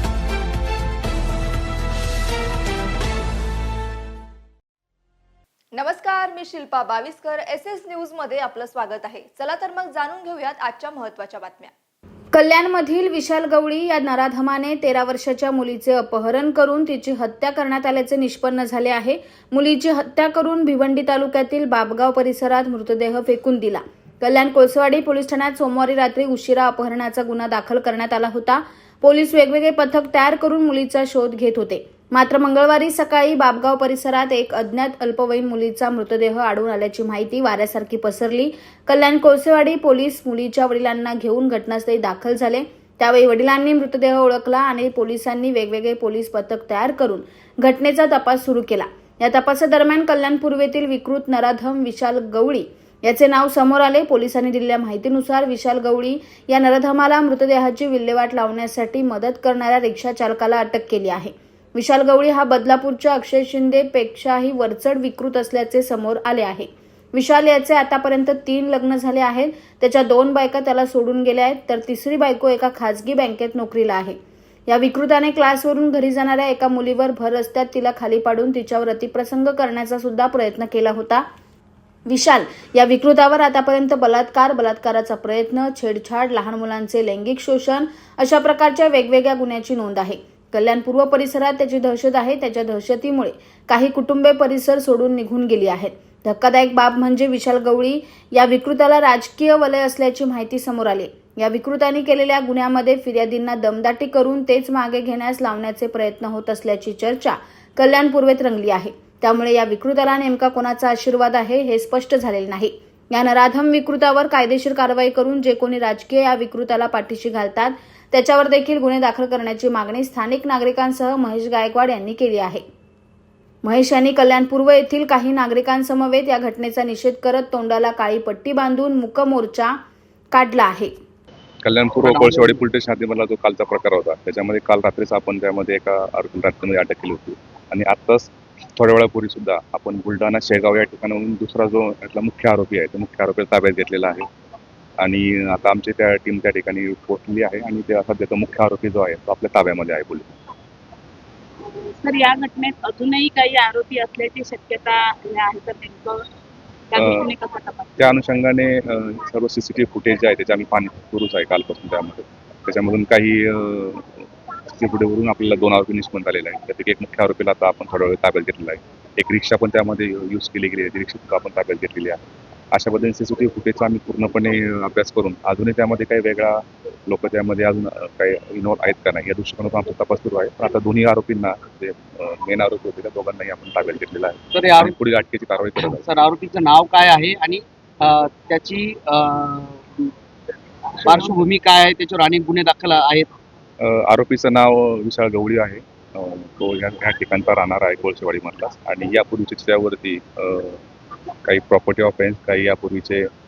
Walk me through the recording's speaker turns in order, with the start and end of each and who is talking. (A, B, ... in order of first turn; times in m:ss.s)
0:05.7-0:11.7 A
0:12.3-1:21.2 B
1:22.1-2:02.6 B
2:03.6-2:09.8 B
2:10.3-2:10.9 B
2:11.6-2:24.2 C
2:12.0-2:12.5 D
2:25.0-2:30.4 C
2:31.8-2:36.2 E
2:36.9-2:38.1 E
2:37.0-2:37.3 C
2:38.0-3:06.0 C
3:04.5-3:04.8 D
3:05.8-3:10.1 D
3:11.0-3:13.3 D
3:13.8-3:20.8 C
3:21.4-3:23.2 C